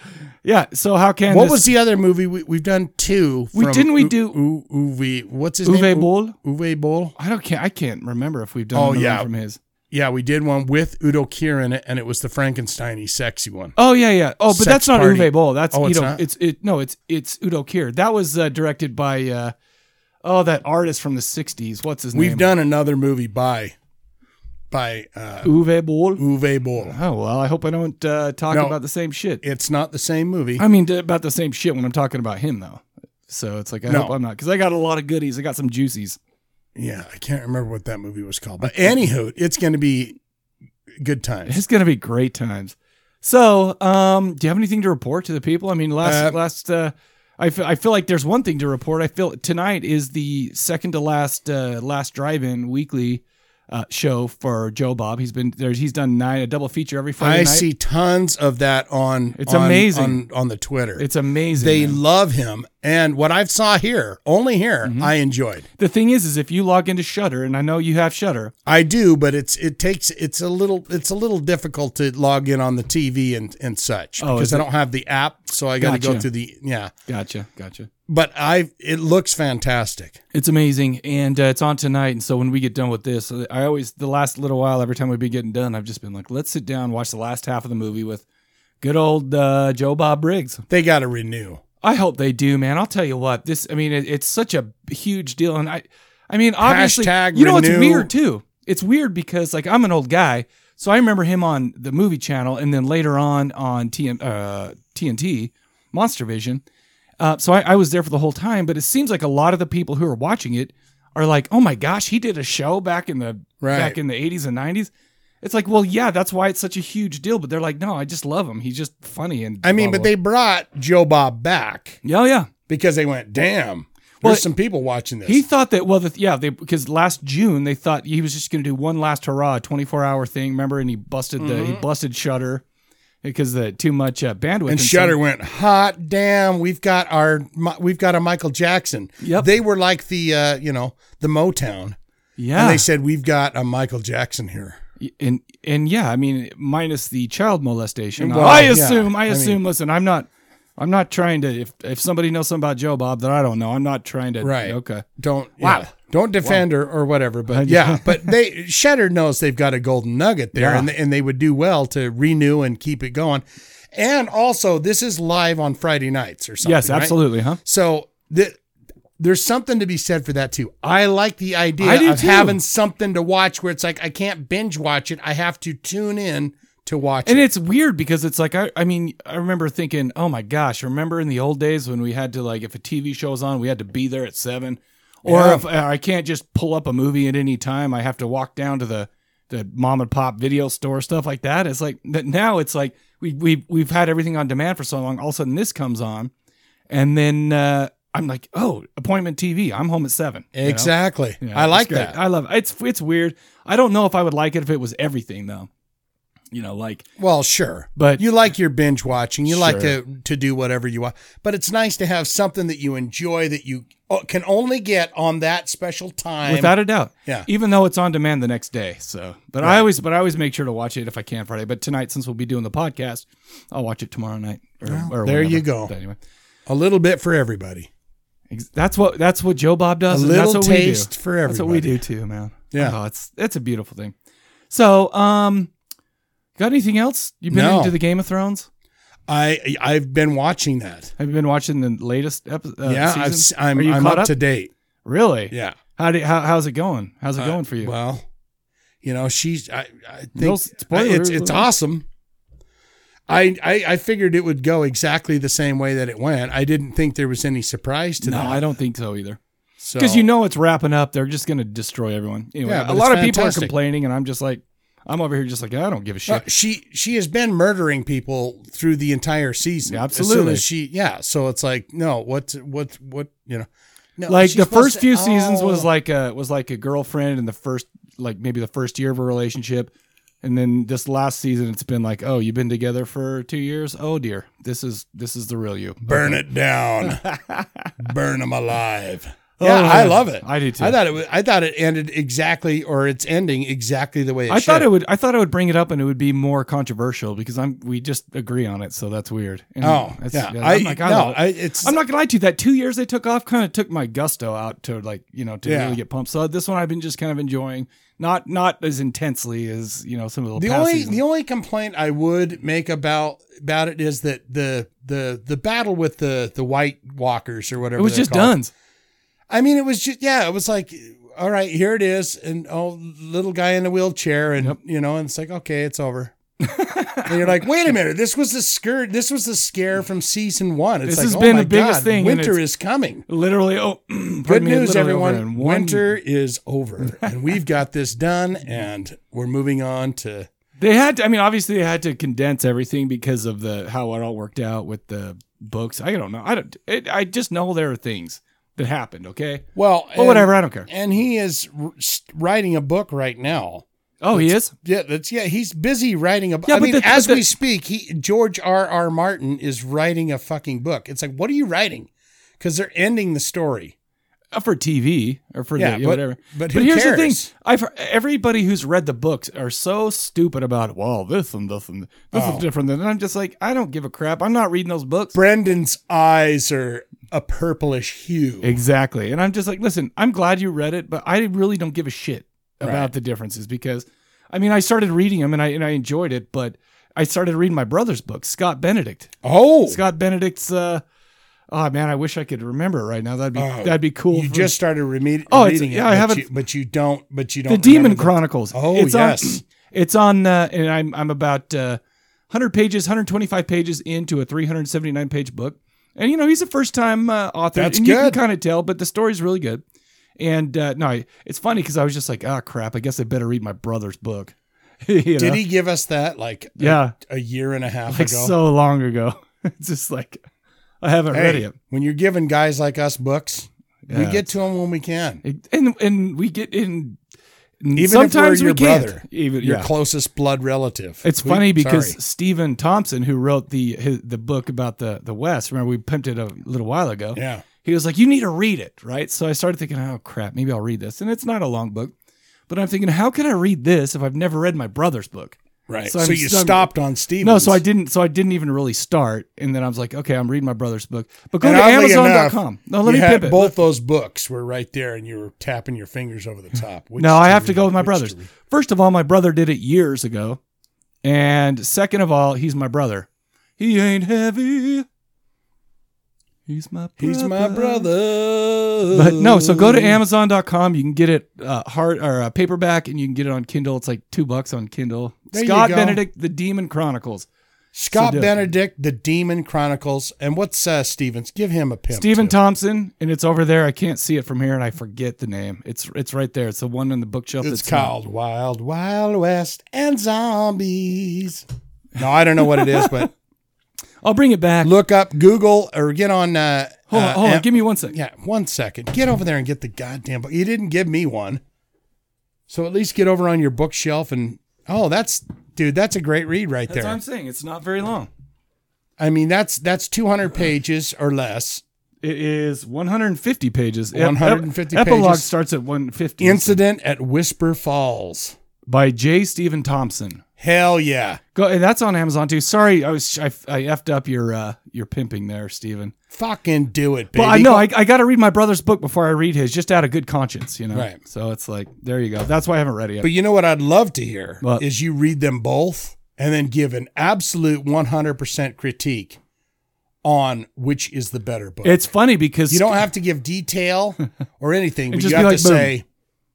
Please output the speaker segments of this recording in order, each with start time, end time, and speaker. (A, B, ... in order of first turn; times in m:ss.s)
0:00.4-0:01.7 A
0:01.3-0:07.2 B
0:03.5-0:04.4 A
0:05.6-0:06.4 A
0:07.2-0:09.6 A
0:08.7-0:09.3 B
0:09.9-0:13.8 B
0:13.8-0:19.5 A
0:14.5-0:16.2 B
0:20.2-0:22.5 A
0:22.1-0:23.8 B
0:24.7-0:25.5 B
0:25.4-0:26.2 A
0:26.2-0:27.0 B
0:26.8-0:29.4 A
0:28.5-0:28.8 B
0:29.4-0:30.6 B
0:30.6-0:36.2 A
0:33.9-0:34.2 B
0:36.8-0:40.2 B
0:41.0-0:41.6 B
0:41.5-0:57.7 A
0:46.0-0:46.4 B
0:57.2-1:05.7 B
0:59.4-1:00.2 A
1:01.0-1:02.0 A
1:04.8-1:05.1 A
1:05.8-1:08.5 A
1:08.7-1:16.9 B
1:14.2-1:14.7 A
1:15.8-1:16.3 A
1:17.1-1:17.9 A
1:18.1-1:20.2 B
1:20.3-1:28.2 A
1:28.8-1:30.6 A
1:30.7-1:31.6 B
1:31.8-1:46.6 A
1:36.6-1:38.1 B
1:47.2-1:54.9 A
1:53.6-1:54.0 B
1:55.4-2:00.1 A
1:59.6-2:02.0 B
2:02.0-2:02.5 A
2:02.7-2:05.4 B
2:05.2-2:12.6 A
2:11.4-2:11.8 B
2:13.2-2:15.2 A
2:14.7-2:22.0 B
2:19.2-2:19.5 A
2:22.4-2:22.9 A
2:22.6-2:24.8 B
2:25.0-2:35.1 A
2:28.2-2:29.6 B
2:34.4-2:48.6 B
2:35.6-2:35.9 A
2:37.5-2:38.3 A
2:40.6-2:40.9 A
2:46.6-2:47.6 A
2:49.2-2:57.5 B
2:51.8-2:52.6 A
2:57.2-3:16.3 A
3:05.2-3:05.6 B
3:16.9-3:25.7 A
3:20.5-3:22.2 B
3:26.5-3:27.0 A
3:27.2-3:37.5 B
3:28.0-3:28.2 A
3:29.5-3:30.0 A
3:36.4-3:46.2 A
3:39.6-3:39.9 B
3:44.8-3:45.9 B
3:46.7-3:47.9 B
3:48.5-3:54.1 A
3:50.1-3:52.0 B
3:52.7-3:53.0 B
3:54.7-3:55.7 A
3:56.6-3:58.7 A
3:57.5-3:58.0 B
3:59.3-4:01.1 B
4:01.2-4:04.4 A
4:02.8-4:04.7 B
4:05.0-4:07.9 A
4:05.5-4:05.8 B
4:07.4-4:08.2 B
4:09.0-4:12.0 B
4:10.4-4:11.7 A
4:13.3-4:18.6 B
4:18.2-4:19.4 A
4:19.8-4:20.3 B
4:20.0-4:26.4 A
4:22.6-4:23.7 B
4:26.3-4:35.9 B
4:29.9-4:30.6 A
4:34.3-4:39.9 A
4:40.4-4:46.4 A
4:46.1-4:47.2 B
4:47.0-4:47.9 A
4:48.0-4:54.9 B
4:49.6-4:51.0 A
4:54.5-5:11.2 A
4:59.8-5:02.0 B
5:05.6-5:06.0 B
5:10.6-5:18.6 B
5:18.0-5:18.7 A
5:19.5-5:26.4 B
5:26.6-5:27.6 A
5:27.3-5:33.2 B
5:31.0-5:32.6 A
5:33.3-5:36.1 A
5:34.5-5:40.5 B
5:40.8-5:50.9 A
5:49.8-6:02.1 B
5:54.2-5:54.7 A
5:56.7-5:57.5 A
6:02.6-6:03.9 B
6:04.5-6:15.4 A
6:05.8-6:07.5 B
6:12.3-6:12.7 B
6:15.3-6:18.8 B
6:18.6-6:29.3 A
6:22.8-6:23.1 B
6:29.4-6:30.0 B
6:29.9-6:31.0 A
6:31.7-6:34.8 A
6:33.6-6:39.6 B
6:35.5-6:36.5 A
6:37.7-6:49.8 A
6:47.8-6:48.4 B
6:50.4-6:55.6 A
6:55.4-6:58.6 B
6:56.8-6:57.2 A
6:58.1-7:00.4 A
7:01.0-7:01.8 A
7:01.3-7:05.4 B
7:04.1-7:04.5 A
7:05.4-7:07.2 A
7:07.8-7:09.9 A
7:08.0-7:12.2 B
7:11.2-7:22.1 A
7:17.4-7:17.6 B
7:22.7-7:26.9 A
7:25.9-7:27.8 B
7:27.4-7:33.8 A
7:31.6-7:38.5 B
7:37.2-7:40.6 A
7:41.2-7:43.3 A
7:43.8-7:45.1 A
7:46.7-7:48.1 A
7:47.2-7:50.2 B
7:49.1-7:57.5 A
7:55.5-7:56.2 B
7:57.9-8:02.6 B
7:58.1-7:58.7 A
8:02.1-8:08.1 A
8:07.6-8:11.6 B
8:12.2-8:13.3 B
8:12.7-8:13.3 A
8:14.2-8:14.9 A
8:14.8-8:21.6 B
8:17.1-8:18.2 A
8:22.7-8:27.2 B
8:26.9-8:28.3 A
8:29.2-8:31.8 B
8:32.2-8:36.8 A
8:34.1-8:35.5 B
8:36.4-8:38.6 B
8:38.9-8:40.4 A
8:40.6-8:41.4 B
8:41.6-8:46.1 A
8:46.3-8:47.9 B
8:47.4-8:53.3 A
8:50.9-8:51.2 B
8:53.2-8:59.4 B
9:00.2-9:02.1 B
9:01.8-9:03.1 A
9:02.7-9:06.0 B
9:05.1-9:05.9 A